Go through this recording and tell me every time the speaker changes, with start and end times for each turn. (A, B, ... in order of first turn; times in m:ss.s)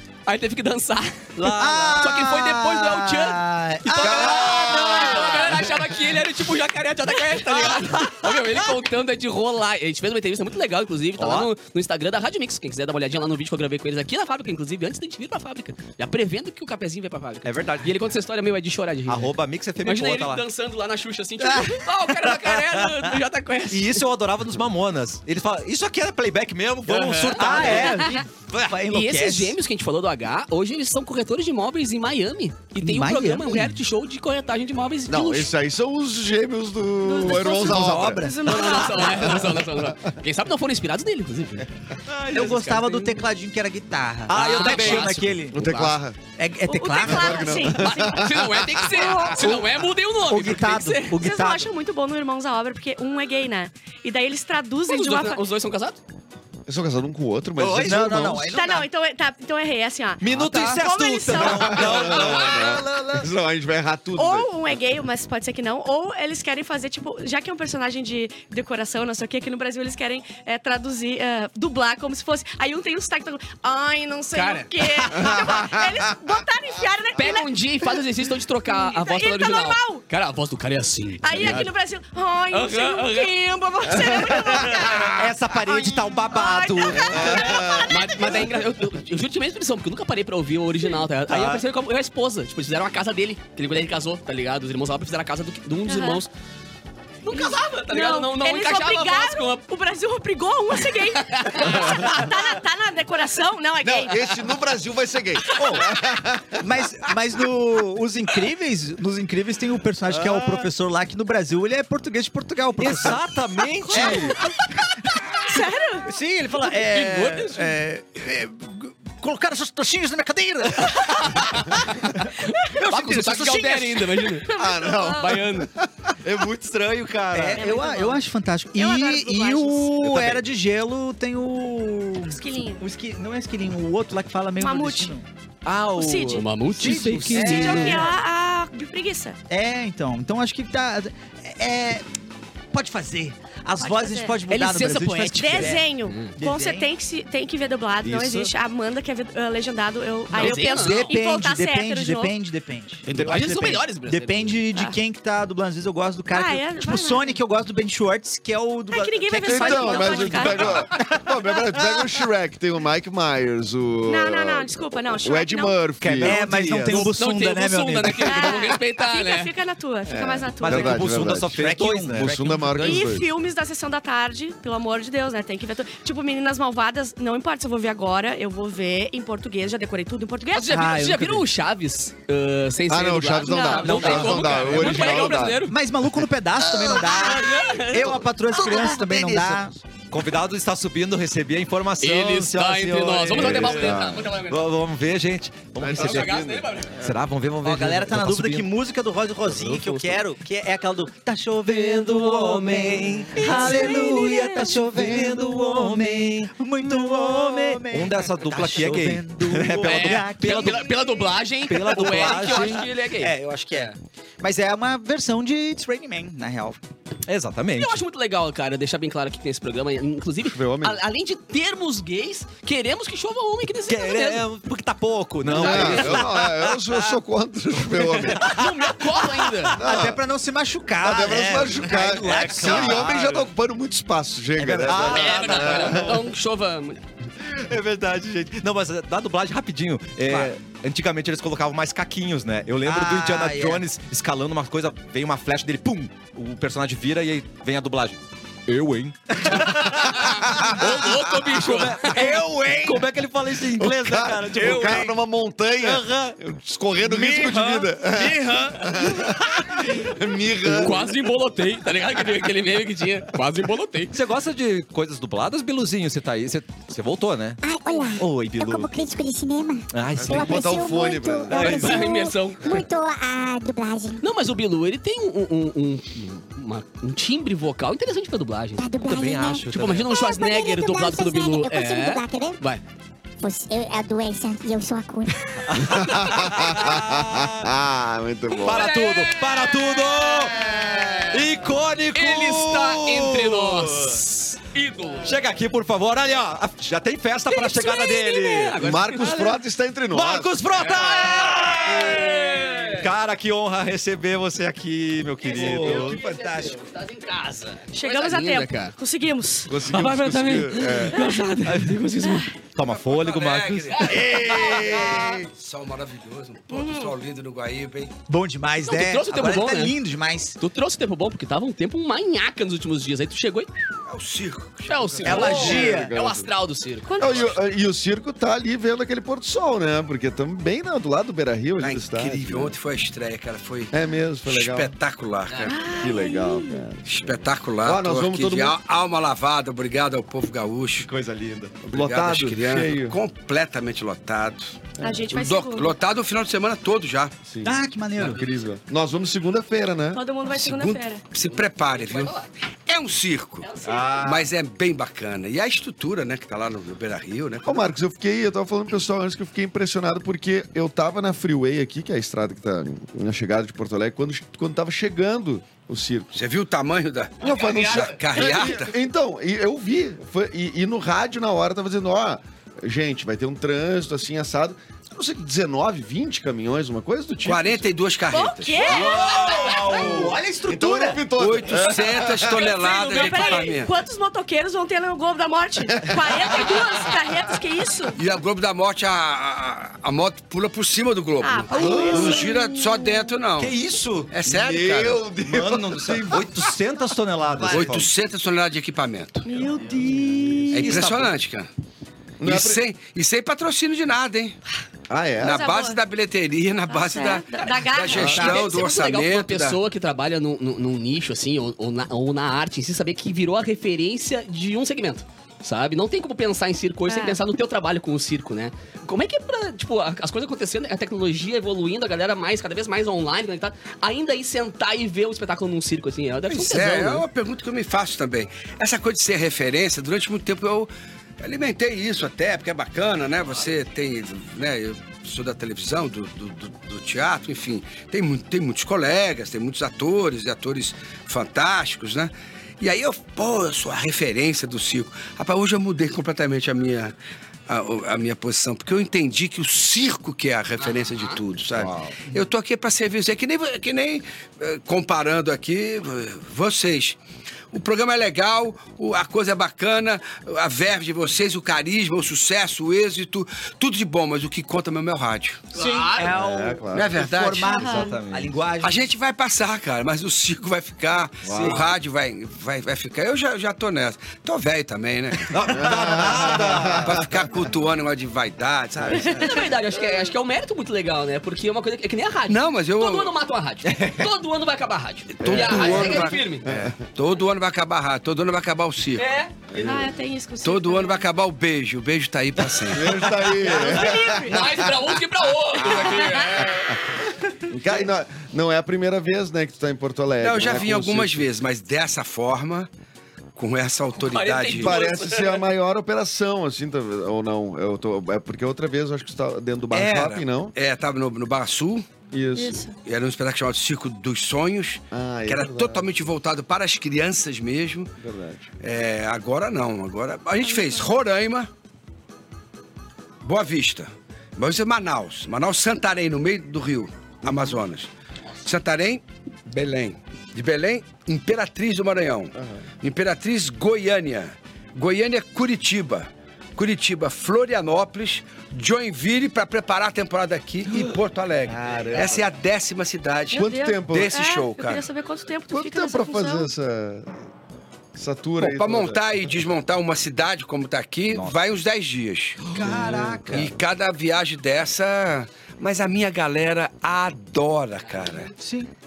0:00.3-0:01.3 A
0:01.4-0:02.1 B
0:01.5-0:05.5 C
0:01.9-0:19.3 A
0:04.0-0:05.8 D
0:11.2-0:11.5 B
0:17.4-0:18.0 B
0:19.1-0:20.4 B
0:19.8-0:24.0 A
0:21.4-0:21.9 C
0:23.7-0:28.0 B
0:26.9-0:28.2 A
0:27.4-0:29.6 C
0:27.7-0:28.2 E
0:28.8-0:35.5 A
0:32.8-0:33.8 C
0:35.1-0:38.6 D
0:37.0-0:39.4 E
0:37.2-0:38.9 C
0:38.4-0:41.7 A
0:39.2-0:40.1 D
0:42.1-0:42.5 B
0:42.3-0:43.2 A
0:42.3-0:45.6 C
0:44.3-0:45.4 B
0:44.3-0:46.0 A
0:45.5-0:46.2 D
0:46.4-0:47.6 C
0:46.7-0:49.6 E
0:47.0-0:49.0 D
0:47.8-0:51.2 A
0:50.3-0:51.7 C
0:51.2-0:55.4 E
0:54.9-0:56.0 A
0:56.7-0:58.5 D
0:57.6-0:58.9 C
0:58.5-1:02.1 E
1:00.2-1:02.5 B
1:00.3-1:00.8 C
1:01.5-1:04.5 D
1:01.6-1:03.3 C
1:02.0-1:02.4 A
1:04.2-1:18.0 E
1:14.3-1:15.1 A
1:15.1-1:16.1 D
1:17.2-1:21.7 A
1:18.6-1:20.0 E
1:21.2-1:28.4 E
1:22.5-1:23.3 A
1:23.9-1:24.8 D
1:25.0-1:26.9 C
1:25.2-1:27.6 B
1:26.9-1:28.4 D
1:27.2-1:36.3 A
1:31.3-1:31.6 C
1:31.3-1:31.6 B
1:35.9-1:36.2 E
1:37.2-1:39.6 A
1:37.3-1:44.4 E
1:41.2-1:42.1 A
1:43.8-1:46.7 D
1:45.6-1:45.9 C
1:45.6-1:45.8 E
1:46.6-1:53.3 C
1:50.1-1:50.7 B
1:52.8-1:54.4 B
1:53.9-1:54.4 E
1:53.9-1:54.5 C
1:55.5-1:56.1 E
1:55.5-2:04.3 C
1:56.8-1:57.8 A
2:01.0-2:04.5 A
2:04.5-2:05.4 E
2:04.6-2:06.1 D
2:05.1-2:05.7 A
2:06.2-2:07.7 B
2:07.3-2:15.2 C
2:07.6-2:08.2 E
2:08.8-2:09.9 E
2:12.2-2:12.8 E
2:14.6-2:15.2 E
2:15.7-2:16.5 B
2:16.0-2:16.5 E
2:16.3-2:18.1 A
2:16.7-2:18.1 C
2:17.3-2:19.4 E
2:19.5-2:22.0 C
2:22.7-2:25.8 C
2:23.8-2:24.4 E
2:24.5-2:26.3 A
2:25.4-2:32.3 E
2:26.4-2:26.9 C
2:28.0-2:28.5 B
2:30.3-2:31.2 A
2:30.4-2:42.0 C
2:33.1-2:33.5 B
2:33.1-2:34.6 A
2:36.3-2:37.4 E
2:38.9-2:40.6 E
2:39.4-2:46.4 D
2:44.1-2:45.8 E
2:46.0-2:47.1 B
2:46.1-2:48.7 C
2:46.9-2:49.5 A
2:48.2-2:51.0 E
2:50.1-2:51.6 D
2:50.6-2:52.8 B
2:51.3-2:53.1 C
2:52.1-2:53.3 D
2:52.8-3:00.8 E
3:00.5-3:05.8 A
3:00.7-3:01.5 C
3:02.9-3:05.7 D
3:03.4-3:04.3 E
3:03.8-3:09.8 C
3:04.4-3:05.0 B
3:06.9-3:08.2 A
3:08.6-3:09.7 D
3:10.1-3:18.7 B
3:12.0-3:14.7 A
3:13.3-3:14.4 D
3:15.8-3:17.2 D
3:15.9-3:17.0 A
3:17.6-3:31.3 C
3:19.5-3:20.2 A
3:21.7-3:31.0 B
3:29.8-3:33.4 A
3:31.7-3:32.8 B
3:31.8-3:36.8 C
3:37.3-3:38.0 B
3:37.8-3:44.4 A
3:40.4-3:41.0 D
3:43.9-3:47.0 B
3:45.5-3:48.6 D
3:45.5-3:46.3 A
3:48.2-3:49.8 B
3:48.4-3:49.8 A
3:49.8-3:50.2 D
3:49.8-3:53.4 C
3:51.0-3:56.3 D
3:52.0-3:53.3 B
3:54.6-3:56.1 B
3:54.6-3:55.2 C
3:54.9-3:57.0 A
3:57.4-4:15.1 B
4:02.8-4:03.8 C
4:10.4-4:12.4 A
4:12.1-4:13.0 C
4:13.8-4:21.1 D
4:14.6-4:15.1 C
4:15.8-4:16.3 B
4:17.0-4:18.5 B
4:17.2-4:18.8 C
4:20.8-4:24.1 A
4:24.1-4:27.6 B
4:27.6-4:34.2 F
4:28.2-4:28.9 B
4:29.9-4:30.9 B
4:30.2-4:32.1 D
4:31.5-4:32.8 A
4:34.2-4:38.9 A
4:38.8-4:42.6 F
4:39.0-4:40.1 B
4:39.7-4:42.8 A
4:43.4-4:45.4 F
4:45.6-4:47.7 B
4:45.7-4:49.0 D
4:48.6-4:50.7 B
4:48.6-4:51.5 A
4:51.3-4:54.2 B
4:52.2-4:55.4 A
4:55.2-4:58.9 B
4:57.5-4:59.6 A
4:58.8-5:00.6 D
5:00.1-5:06.2 B
5:00.9-5:03.1 A
5:05.4-5:08.9 A
5:05.6-5:05.9 D
5:07.9-5:09.8 E
5:09.7-5:11.2 D
5:09.9-5:10.7 B
5:10.1-5:12.5 A
5:10.9-5:11.5 E
5:11.6-5:14.1 B
5:12.2-5:12.5 E
5:12.8-5:18.1 G
5:14.0-5:14.6 A
5:14.1-5:15.5 D
5:16.7-5:17.2 E
5:18.3-5:20.6 C
5:18.8-5:20.0 A
5:20.6-5:23.7 A
5:24.1-5:25.6 G
5:24.8-5:27.4 A
5:25.2-5:26.1 C
5:25.3-5:26.5 D
5:27.1-5:27.6 E
5:27.2-5:32.8 D
5:31.8-5:33.9 G
5:33.9-5:35.0 D
5:34.5-5:35.8 G
5:35.5-5:35.8 A
5:35.7-5:36.8 E
5:35.8-5:38.8 D
5:37.1-5:41.1 G
5:41.0-5:41.8 B
5:41.8-5:43.2 D
5:41.9-5:47.4 G
5:45.0-5:46.0 E
5:47.5-5:50.2 D
5:47.6-5:48.4 C
5:50.1-5:51.2 E
5:50.5-5:53.7 G
5:51.9-5:52.5 A
5:53.6-5:54.4 A
5:53.9-5:54.4 B
5:54.2-5:57.9 G
5:57.7-6:06.3 D
6:06.3-6:08.9 G
6:07.4-6:17.9 D
6:07.6-6:08.7 A
6:17.4-6:19.1 G
6:18.3-6:19.9 E
6:18.9-6:21.3 C
6:18.9-6:20.3 B
6:19.8-6:22.6 D
6:21.3-6:23.9 G
6:22.4-6:28.2 E
6:23.1-6:23.6 A
6:25.9-6:27.0 D
6:28.2-6:33.8 G
6:31.4-6:33.4 E
6:31.7-6:32.5 D
6:33.6-6:34.3 B
6:34.3-6:35.3 G
6:34.4-6:36.6 D
6:35.5-6:38.1 B
6:37.6-6:39.5 G
6:39.4-6:41.1 E
6:40.7-6:41.3 B
6:40.7-6:41.7 G
6:42.4-6:42.8 D
6:42.4-6:44.6 G
6:45.1-6:45.6 D
6:45.4-6:46.0 E
6:45.4-6:49.8 G
6:46.9-6:49.0 E
6:48.1-6:48.6 D
6:48.2-7:07.2 A
6:57.1-6:57.4 E
7:06.5-7:27.2 G
7:27.7-7:37.2 G
7:30.8-7:31.4 A
7:31.8-7:32.2 B
7:37.7-7:45.7 G
7:45.7-7:49.0 C
7:45.8-7:46.3 A
7:46.2-7:47.2 D
7:46.9-7:47.8 G
7:47.7-7:48.1 E
7:47.8-7:48.5 B
7:48.8-7:55.9 G
7:51.4-7:51.8 B
7:51.5-7:51.8 D
7:55.5-7:57.1 B
7:55.7-7:57.3 D
7:56.9-7:59.6 G
7:59.0-7:59.4 D
7:59.1-7:59.7 E
7:59.4-8:06.7 A
8:02.5-8:03.4 G
8:03.8-8:04.3 B
8:05.4-8:09.3 G
8:05.4-8:06.9 D
8:09.2-8:09.6 A
8:09.7-8:10.2 D
8:09.8-8:11.3 E
8:10.6-8:13.4 G
8:12.9-8:14.9 D
8:13.7-8:14.9 E
8:14.3-8:16.9 A
8:15.8-8:16.3 G
8:15.8-8:16.7 E
8:16.1-8:17.2 D
8:17.7-8:21.4 D
8:20.4-8:22.9 G
8:23.6-8:25.0 G
8:24.2-8:25.7 A
8:24.8-8:30.8 D
8:29.9-8:32.1 G
8:30.0-8:30.2 C
8:32.3-8:32.9 D
8:32.6-8:32.9 E
8:32.9-8:38.1 G
8:35.1-8:36.1 D
8:38.2-8:38.7 D
8:38.8-8:41.7 G
8:40.6-8:41.1 E
8:43.4-8:48.1 G
8:47.4-8:47.8 D
8:48.6-9:05.1 G
9:01.7-9:02.5 D
9:03.5-9:06.7 E
9:03.5-9:04.3 D
9:05.7-9:07.3 D
9:08.2-9:09.2 D
9:08.6-9:12.6 G
9:11.3-9:11.6 B
9:12.7-9:13.8 D
9:12.7-9:13.7 C
9:13.5-9:18.5 G
9:18.5-9:18.9 C